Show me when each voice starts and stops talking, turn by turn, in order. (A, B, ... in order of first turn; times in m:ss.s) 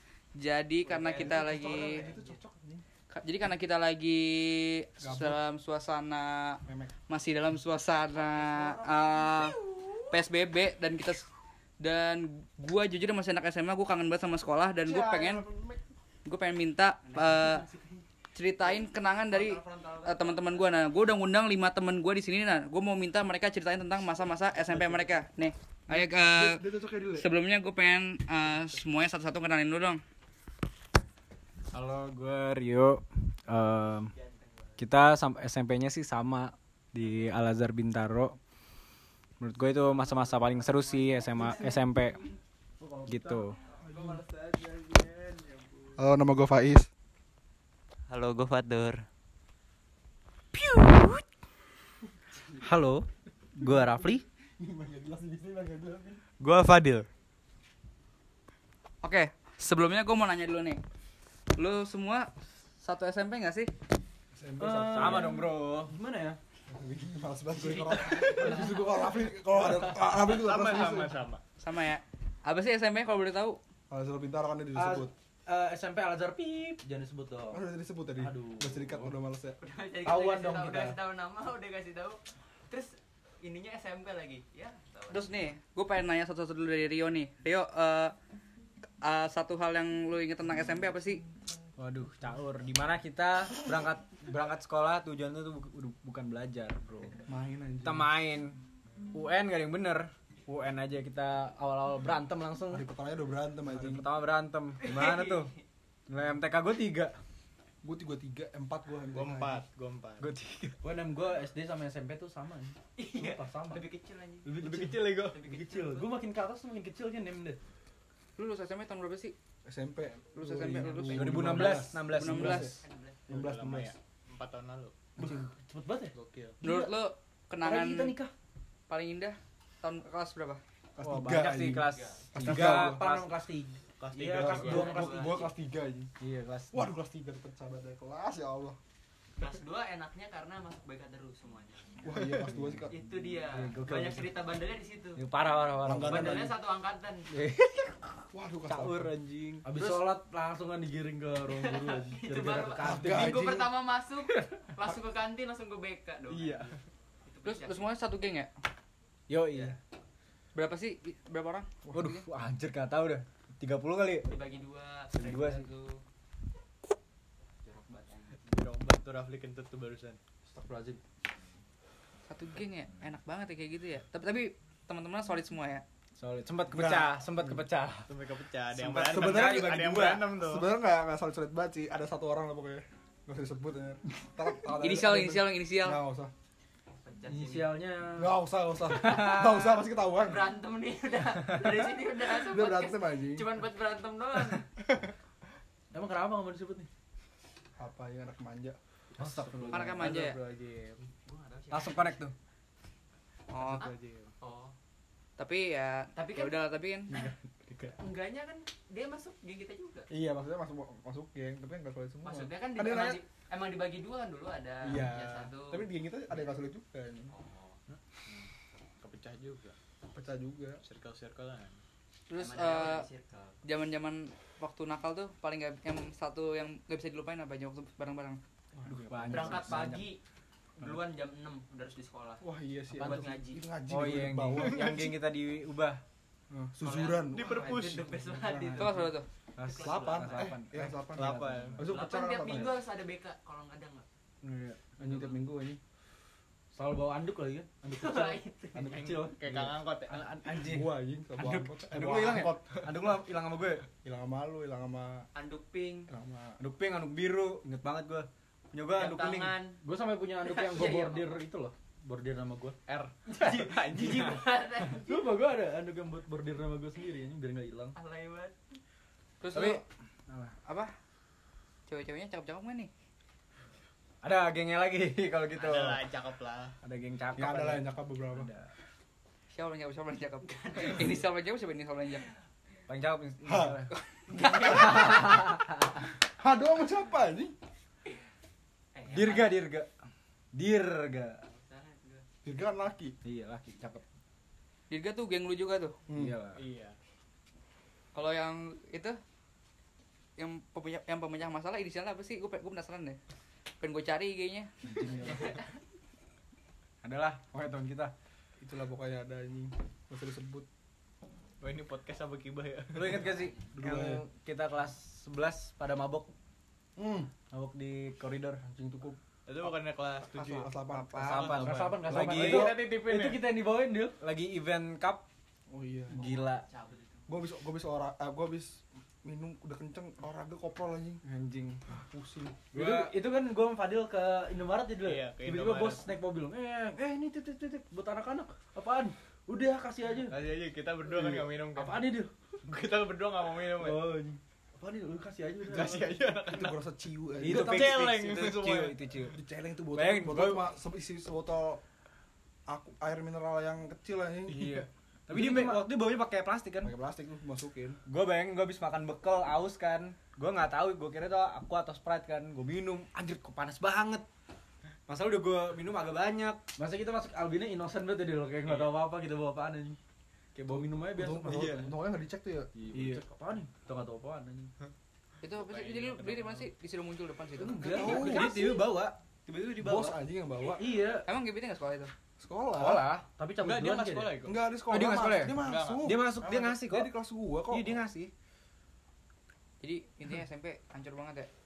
0:00.3-0:02.0 A
0:00.8-0:02.4 B
0:01.2-0:02.8 C
0:03.1-0:09.6 A
0:05.0-0:05.4 C
0:06.6-0:06.9 C
0:08.1-0:10.1 C
0:10.1-0:11.3 A
0:11.8-0:15.4 A
0:14.8-0:15.8 C
0:16.3-0:17.7 A
0:17.0-0:18.0 B
0:18.4-0:26.6 A
0:18.6-0:20.7 B
0:24.6-0:25.2 C
0:25.9-0:27.3 C
0:27.2-0:30.0 A
0:31.7-0:34.1 D
0:34.1-0:34.8 B
0:34.8-0:38.4 D
0:39.4-0:42.2 D
0:40.2-0:42.3 B
0:42.8-0:43.5 E
0:43.1-0:43.6 D
0:43.6-0:46.0 B
0:43.9-0:44.2 C
0:46.0-0:46.9 C
0:48.1-0:49.0 B
0:50.6-0:51.1 D
0:52.6-0:54.2 E
0:54.6-0:56.2 C
0:56.4-0:57.0 D
0:59.0-1:00.8 A
1:01.6-1:03.7 A
1:04.3-1:05.4 C
1:04.6-1:06.4 E
1:04.9-1:05.9 D
1:06.7-1:11.2 C
1:08.2-1:08.7 B
1:09.8-1:11.4 F
1:11.6-1:13.6 A
1:13.9-1:15.1 C
1:14.8-1:17.6 E
1:17.5-1:19.6 C
1:18.2-1:19.2 E
1:19.6-1:25.3 B
1:20.0-1:21.0 E
1:25.1-1:28.1 A
1:29.0-1:31.2 A
1:31.8-1:37.2 D
1:37.3-1:38.1 C
1:37.8-1:38.6 D
1:39.1-1:42.9 D
1:42.7-1:44.1 C
1:43.7-1:45.5 D
1:44.8-1:45.6 B
1:46.1-1:47.2 D
1:47.8-1:49.6 C
1:49.1-1:50.3 F
1:50.2-1:50.8 D
1:50.8-1:53.9 E
1:53.0-1:54.5 B
1:54.4-1:57.6 E
1:54.6-1:55.4 F
1:55.3-1:56.1 B
1:58.4-1:59.3 A
1:59.6-2:03.9 C
2:00.3-2:02.8 A
2:01.1-2:02.7 D
2:02.8-2:03.2 B
2:03.3-2:05.1 F
2:05.2-2:07.0 E
2:05.2-2:05.5 C
2:06.1-2:06.6 F
2:06.6-2:08.1 A
2:07.6-2:08.3 E
2:08.9-2:10.6 A
2:11.0-2:13.0 C
2:11.0-2:13.3 D
2:11.8-2:12.3 B
2:12.4-2:15.5 E
2:14.0-2:15.2 F
2:14.3-2:16.1 C
2:14.6-2:15.5 B
2:16.2-2:16.9 D
2:16.7-2:18.8 C
2:19.4-2:22.0 B
2:22.0-2:23.0 C
2:22.2-2:22.8 D
2:22.9-2:25.2 B
2:23.6-2:24.3 E
2:23.8-2:24.1 D
2:25.2-2:26.5 D
2:25.8-2:26.6 C
2:26.0-2:27.3 B
2:27.4-2:27.8 D
2:28.3-2:29.1 C
2:28.7-2:29.9 D
2:29.6-2:33.4 E
2:31.5-2:37.8 B
2:32.8-2:33.8 C
2:36.3-2:36.8 F
2:37.4-2:38.5 A
2:39.3-2:39.8 D
2:40.5-2:42.2 A
2:41.9-2:44.3 D
2:44.2-2:46.0 B
2:45.1-2:45.7 D
2:47.6-2:48.6 B
2:48.4-2:50.2 F
2:50.4-2:51.0 E
2:52.3-2:55.8 A
2:56.2-2:58.1 D
2:56.7-2:57.5 C
2:58.1-3:00.7 F
2:58.8-3:06.3 C
2:58.9-3:00.2 D
3:04.8-3:06.0 A
3:06.9-3:07.8 B
3:07.2-3:08.3 E
3:08.2-3:10.5 C
3:10.1-3:14.7 B
3:12.3-3:13.5 C
3:15.9-3:16.9 E
3:17.8-3:18.8 C
3:19.2-3:20.2 E
3:19.2-3:19.9 D
3:19.7-3:20.4 A
3:19.9-3:21.1 F
3:21.2-3:22.3 B
3:21.7-3:22.3 D
3:23.5-3:23.9 A
3:23.5-3:24.3 F
3:23.8-3:24.8 B
3:25.4-3:27.2 A
3:26.2-3:26.6 B
3:28.0-3:30.1 B
3:30.1-3:33.2 C
3:32.2-3:35.9 B
3:34.8-3:37.3 C
3:37.3-3:37.8 B
3:37.9-3:38.5 F
3:39.0-3:39.8 F
3:40.1-3:40.8 C
3:40.8-3:41.8 F
3:42.3-3:43.1 A
3:42.4-3:43.6 B
3:43.6-3:48.4 A
3:48.8-3:49.5 C
3:48.8-3:50.0 D
3:49.1-3:49.8 E
3:49.3-3:50.2 B
3:50.8-3:53.6 B
3:52.4-3:55.1 C
3:53.9-3:56.0 D
3:54.6-3:55.1 F
3:56.5-3:59.1 C
3:56.8-4:00.6 B
3:57.2-3:58.2 F
3:58.8-3:59.2 A
3:59.6-4:01.7 D
3:59.8-4:02.8 C
4:01.2-4:01.8 F
4:01.8-4:04.1 B
4:04.4-4:04.9 D
4:05.0-4:05.8 C
4:06.7-4:11.6 E
4:07.9-4:09.0 B
4:08.9-4:10.3 F
4:10.6-4:12.7 C
4:11.8-4:13.8 D
4:12.4-4:12.9 F
4:14.0-4:15.3 C
4:15.3-4:16.1 B
4:16.1-4:16.6 C
4:16.6-4:19.6 D
4:18.9-4:19.8 B
4:19.8-4:22.8 E
4:20.4-4:21.4 B
4:22.9-4:24.3 F
4:23.2-4:25.3 B
4:23.6-4:24.3 E
4:24.9-4:28.0 E
4:28.0-4:28.6 B
4:29.4-4:29.8 A
4:29.5-4:30.5 D
4:30.6-4:30.9 A
4:31.9-4:32.9 A
4:34.2-4:36.0 D
4:35.6-4:36.8 F
4:36.8-4:38.7 D
4:37.4-4:38.5 C
4:39.5-4:42.3 A
4:42.9-4:43.9 D
4:43.4-4:45.5 C
4:44.4-4:45.1 A
4:46.1-4:47.6 C
4:48.9-4:49.6 B
4:49.1-4:49.9 D
4:50.5-4:51.4 D
4:51.4-4:52.3 B
4:52.4-4:53.2 C
4:53.2-4:54.0 D
4:54.9-4:56.0 A
4:56.1-4:56.4 C
4:56.1-4:56.6 D
4:56.5-4:57.0 F
4:58.1-4:59.2 A
5:00.4-5:03.2 A
5:03.8-5:04.7 A
5:04.8-5:05.5 E
5:07.0-5:08.1 D
5:08.6-5:10.6 C
5:11.6-5:13.3 F
5:12.9-5:16.3 D
5:13.8-5:14.2 C
5:17.0-5:17.3 C
5:17.5-5:18.6 D
5:18.6-5:22.8 C
5:19.5-5:23.4 F
5:21.2-5:22.7 D
5:21.6-5:24.2 E
5:24.2-5:25.2 D
5:25.7-5:26.3 C
5:26.1-5:26.6 D
5:26.1-5:27.4 B
5:27.3-5:31.2 C
5:31.2-5:31.8 D
5:31.9-5:32.6 C
5:32.7-5:40.4 E
5:32.7-5:33.1 D
5:35.0-5:36.0 F
5:40.3-5:42.1 F
5:41.2-5:42.3 E
5:42.6-5:44.1 F
5:43.8-5:46.2 E
5:45.6-5:46.9 F
5:46.4-5:48.0 C
5:47.4-5:49.4 D
5:47.4-5:49.0 F
5:47.6-5:47.9 E
5:49.3-5:51.8 C
5:49.9-5:50.7 D
5:52.7-5:55.7 C
5:54.5-5:56.9 D
5:55.4-5:55.8 E
5:56.8-5:58.0 C
5:58.1-6:04.2 D
6:05.1-6:06.6 D
6:06.8-6:10.0 E
6:08.6-6:08.9 F
6:10.6-6:11.9 E
6:11.1-6:12.7 C
6:12.8-6:14.7 E
6:12.9-6:13.2 D
6:15.4-6:18.2 A
6:15.6-6:16.7 F
6:17.6-6:18.6 E
6:17.8-6:18.7 C
6:17.8-6:20.2 D
6:19.8-6:20.9 C
6:20.7-6:21.3 E
6:21.2-6:22.1 A
6:22.4-6:23.1 C
6:22.8-6:23.2 D
6:23.3-6:24.4 E
6:23.6-6:24.6 F
6:24.4-6:28.0 C
6:24.9-6:27.1 D
6:25.5-6:26.8 F
6:27.7-6:28.3 D
6:29.8-6:31.5 A